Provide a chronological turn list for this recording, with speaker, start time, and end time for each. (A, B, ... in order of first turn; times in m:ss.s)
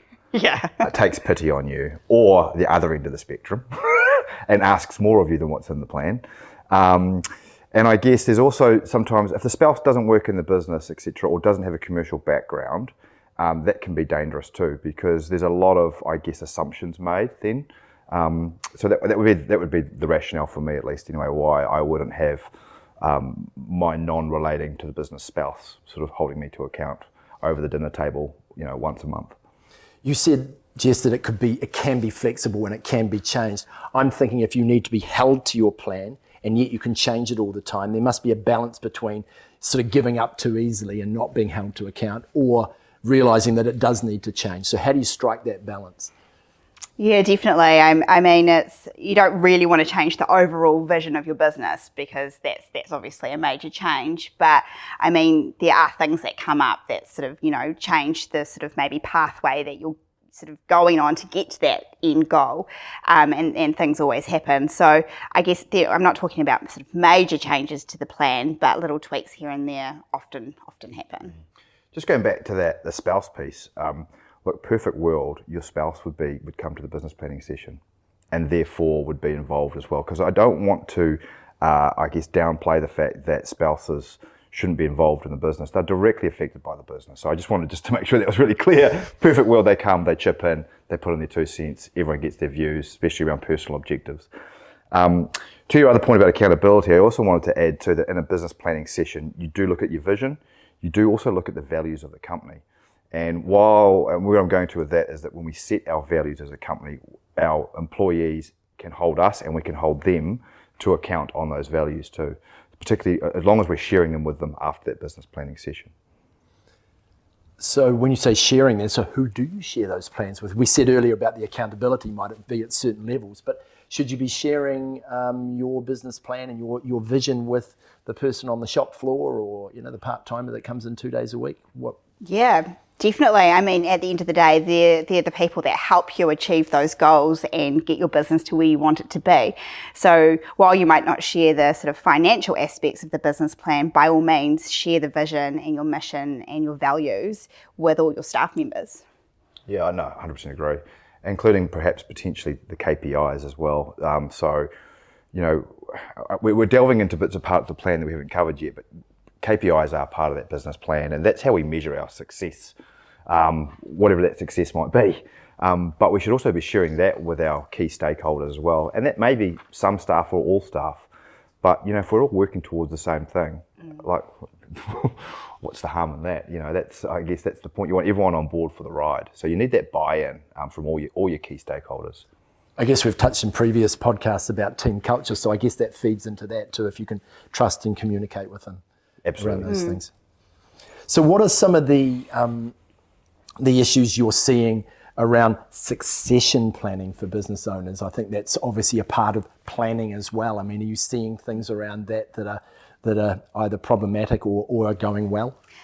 0:00.3-0:00.8 A
0:00.8-0:22.5 B
0:23.0-0:29.3 B
0:30.0-0:46.1 C
0:47.0-1:11.4 A
1:11.9-1:17.8 B
1:18.3-1:34.3 B
1:34.9-1:55.9 B
1:57.6-2:12.0 C
2:12.2-2:29.0 A
2:29.7-2:34.7 B
2:35.3-2:38.8 B
2:39.4-2:42.8 B
2:43.3-2:51.1 B
2:51.6-3:02.2 B
3:02.8-3:08.8 C
3:09.2-3:09.8 B
3:09.4-3:10.1 C
3:09.7-3:10.0 A
3:11.1-3:12.7 C
3:13.6-3:25.6 C